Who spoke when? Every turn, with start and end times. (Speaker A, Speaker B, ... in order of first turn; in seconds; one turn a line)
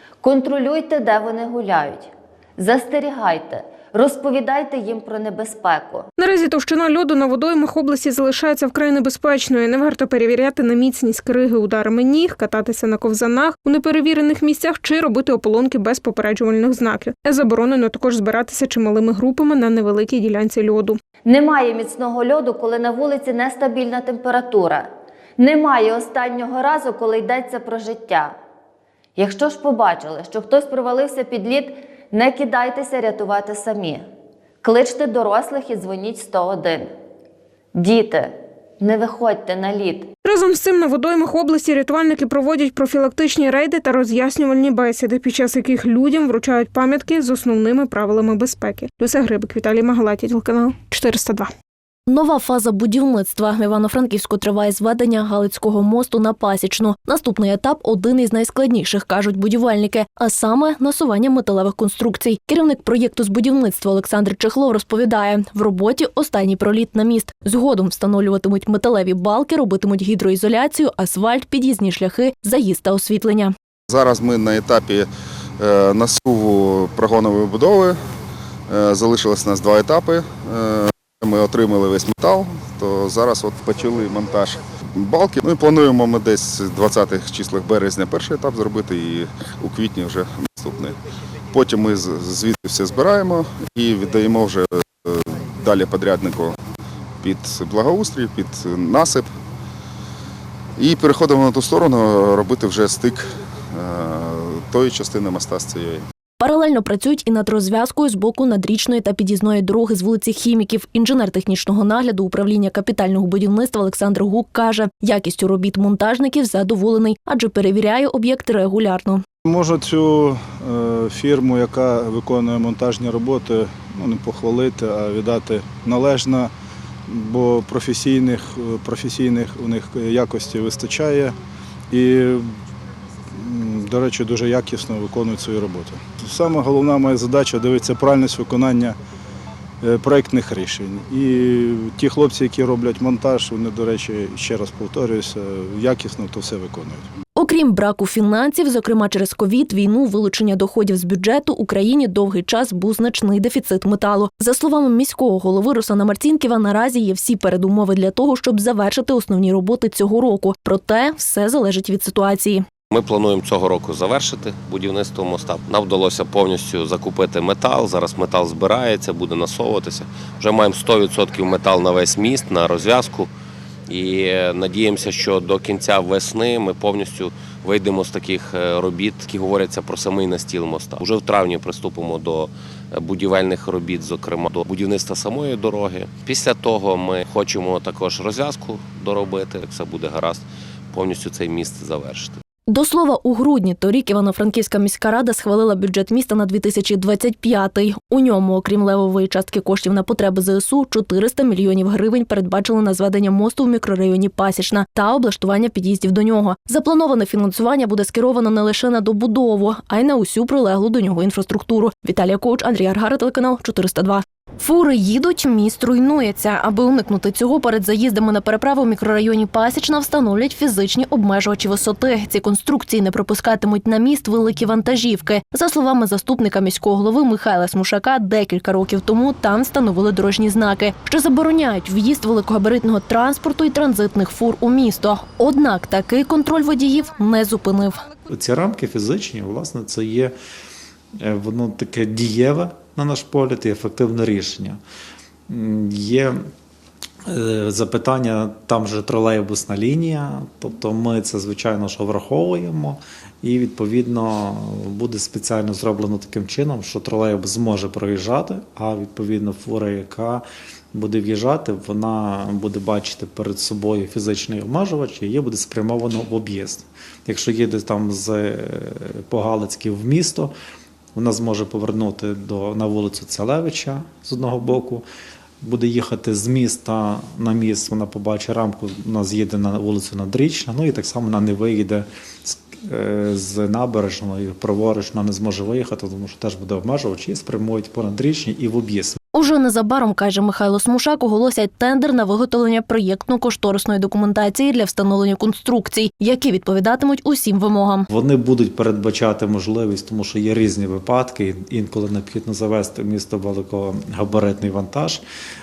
Speaker A: 0.2-6.0
Speaker B: 6.2-21.0
Speaker A: 21.3-24.9
Speaker A: 25.4-28.3
Speaker A: 29.2-34.0
Speaker A: 34.6-36.9
Speaker A: 37.8-40.1
Speaker B: 40.2-51.5
Speaker C: 52.1-73.5
Speaker D: 73.9-75.1
Speaker D: 75.6-78.0
Speaker D: 78.7-90.9
Speaker D: 91.5-96.5
Speaker D: 97.2-99.3
Speaker D: 100.8-103.2
Speaker D: 103.8-106.0
Speaker C: 106.4-119.2
Speaker E: 119.4-126.5
Speaker E: 127.1-131.3
Speaker E: 131.9-132.4
Speaker E: 133.4-138.9
Speaker E: 139.8-147.1
Speaker C: 147.4-162.7
Speaker F: 162.9-173.3
Speaker F: 173.9-192.4
Speaker C: 192.7-238.0
Speaker G: 238.3-240.3
Speaker G: 241.2-244.8
Speaker G: 245.5-246.4
Speaker G: 247.3-270.5
Speaker G: 271.1-275.0
Speaker G: 275.6-289.2
Speaker C: 289.3-298.1
Speaker G: 298.1-305.2